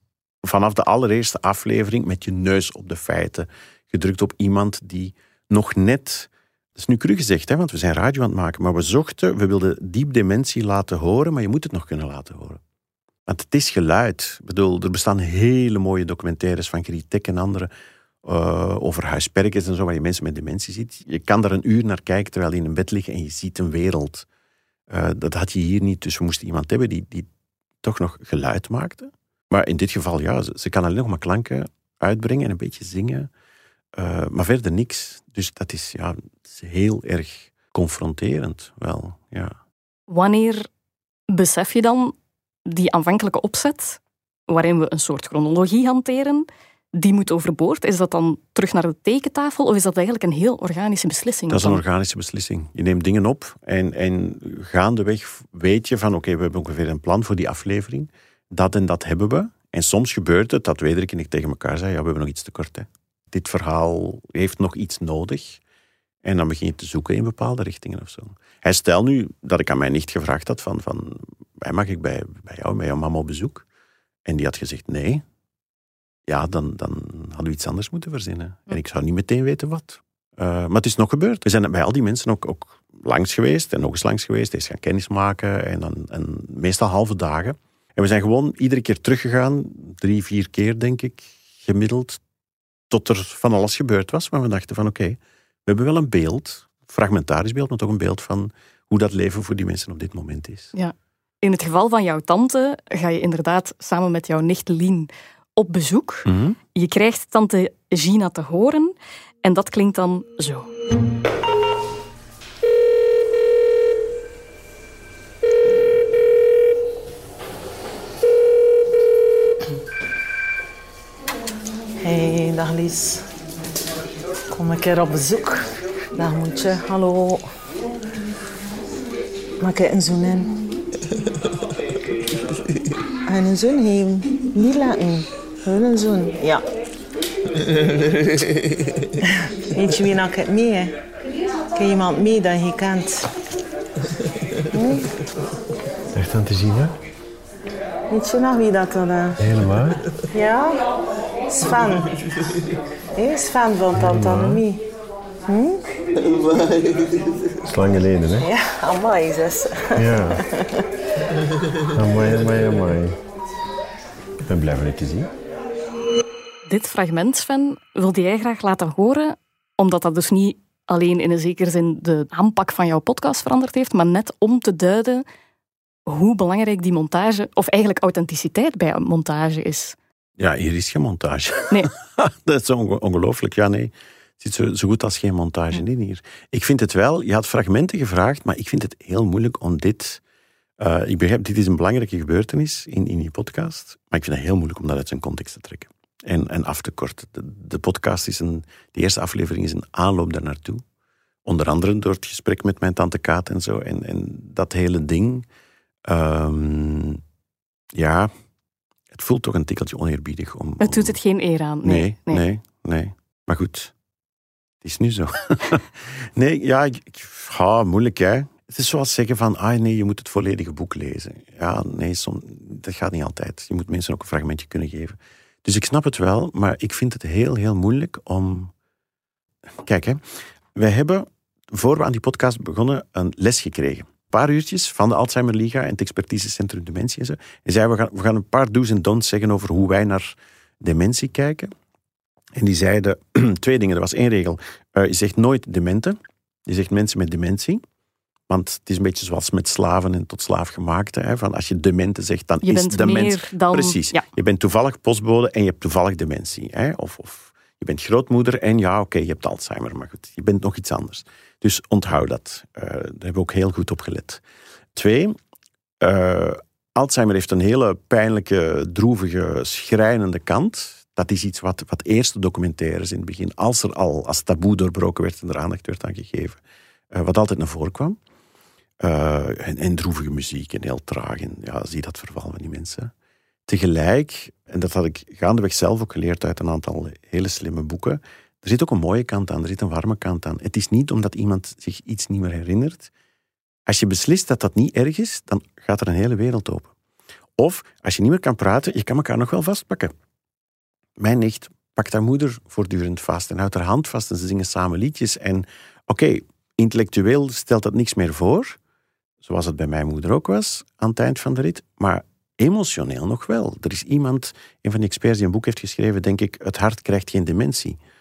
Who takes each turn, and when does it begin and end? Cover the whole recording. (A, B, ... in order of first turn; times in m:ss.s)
0:00.4-0:12.6 A
0:13.3-0:17.7 A
0:18.2-0:24.2 A
0:24.9-0:27.3 A
0:27.8-0:33.3 A
0:34.0-0:39.6 A
0:40.1-0:40.7 B
0:41.3-0:42.1 B
0:42.6-0:51.8 B
0:51.5-1:05.6 A
1:06.2-1:13.6 A
1:14.2-1:15.2 A
1:16.3-1:32.2 A
1:32.9-1:40.7 A
1:40.7-1:50.7 B
1:46.2-1:46.6 A
2:02.0-2:03.2 C
2:04.5-2:07.5 C
2:09.6-2:10.6 C
2:13.3-2:16.6 C
2:19.7-2:21.0 C
2:21.7-2:23.3 C
2:24.7-2:25.1 C
2:26.1-2:26.9 D
2:28.1-2:29.4 C
2:29.4-2:30.0 D
2:30.3-2:30.8 C
2:31.5-2:32.2 C
2:33.2-2:34.8 C
2:34.0-2:34.6 D
2:35.5-2:35.8 C
2:37.7-2:38.5 D
2:38.4-2:40.7 C
2:40.0-2:40.4 D
2:42.0-2:43.2 D
2:44.4-2:45.3 D
2:46.6-2:55.2 B
2:56.1-3:00.0 B
3:00.4-3:10.2 A
3:10.8-3:20.8 A
3:21.4-3:25.5 A
3:26.1-3:27.2 A
3:27.9-3:28.3 A
3:29.1-3:31.2 A
3:30.8-3:32.4 B
3:31.8-3:33.9 A
3:34.8-3:48.7 A
3:49.8-3:50.2 A
3:50.7-4:01.7 A
4:02.6-4:07.8 A
4:08.5-4:24.4 A
4:12.6-4:14.2 B
4:24.9-4:25.4 A
4:26.0-4:36.6 A
4:37.1-4:38.2 A
4:39.0-4:43.1 A
4:43.7-4:53.1 A
4:53.9-4:56.9 A
4:57.6-5:00.1 A
5:01.2-5:08.8 A
5:09.4-5:18.0 A